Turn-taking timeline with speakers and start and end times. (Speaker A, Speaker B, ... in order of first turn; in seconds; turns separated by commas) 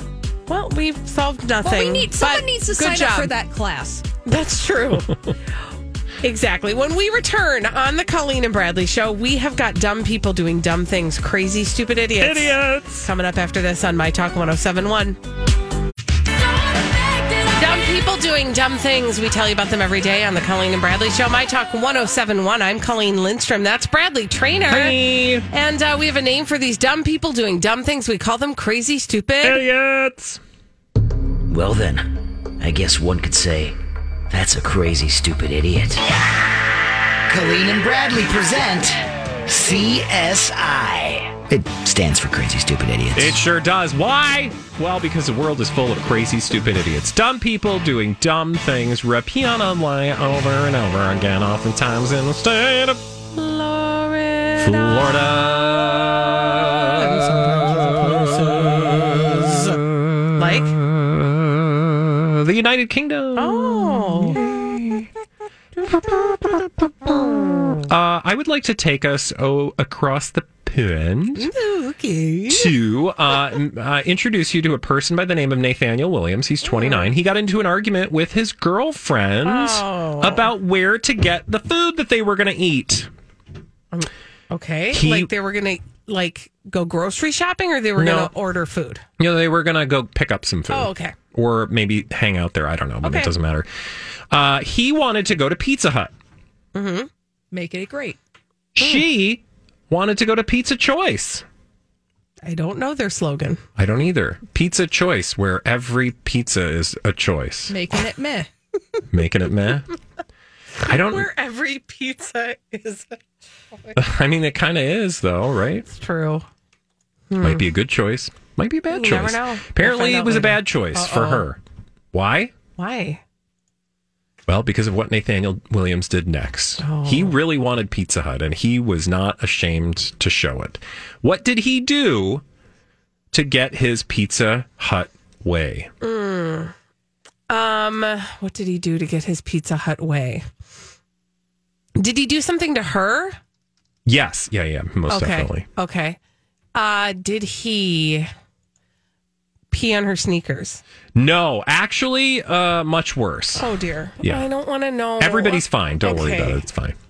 Speaker A: 0.5-3.3, Speaker B: 1.6-4.0, Speaker A: 4.2-5.1, Speaker A: 6.2-15.2, Speaker C: 12.2-13.1, Speaker A: 17.4-25.0, Speaker C: 24.7-25.5, Speaker A: 25.5-29.6, Speaker C: 29.4-30.4, Speaker D: 31.5-33.8, Speaker D: 34.3-36.1, Speaker D: 37.3-43.4, Speaker C: 43.1-53.0, Speaker A: 53.3-55.1, Speaker C: 54.6-65.1, Speaker A: 57.0-59.8, Speaker A: 60.4-60.7, Speaker A: 63.4-64.4, Speaker C: 65.9-66.7, Speaker A: 67.3-67.8, Speaker C: 67.9-71.5, Speaker A: 71.4-72.7, Speaker C: 72.5-83.1, Speaker A: 76.7-77.1, Speaker A: 79.4-80.5, Speaker A: 83.9-89.0, Speaker C: 84.9-85.3, Speaker C: 88.0-88.3, Speaker C: 89.2-93.7, Speaker A: 90.7-91.2, Speaker A: 93.0-93.3, Speaker C: 94.3-96.1, Speaker A: 96.8-97.1, Speaker B: 97.5-98.2, Speaker C: 98.8-101.4, Speaker A: 102.4-103.6, Speaker C: 103.8-107.8, Speaker B: 107.7-108.5, Speaker C: 109.1-109.9, Speaker A: 110.8-113.2, Speaker C: 110.8-111.3, Speaker C: 114.0-115.9, Speaker A: 115.9-116.5, Speaker A: 117.3-117.6, Speaker C: 117.4-121.6, Speaker A: 118.9-121.5, Speaker C: 122.1-122.5, Speaker A: 122.8-123.2, Speaker C: 124.5-132.4, Speaker A: 126.8-127.4, Speaker C: 133.3-135.9, Speaker A: 136.0-136.7, Speaker A: 137.5-140.4, Speaker A: 142.0-143.4, Speaker C: 144.1-145.7, Speaker A: 145.1-146.2, Speaker A: 146.8-148.3, Speaker A: 149.7-150.8, Speaker C: 151.2-153.7, Speaker A: 153.6-156.6, Speaker C: 155.2-157.0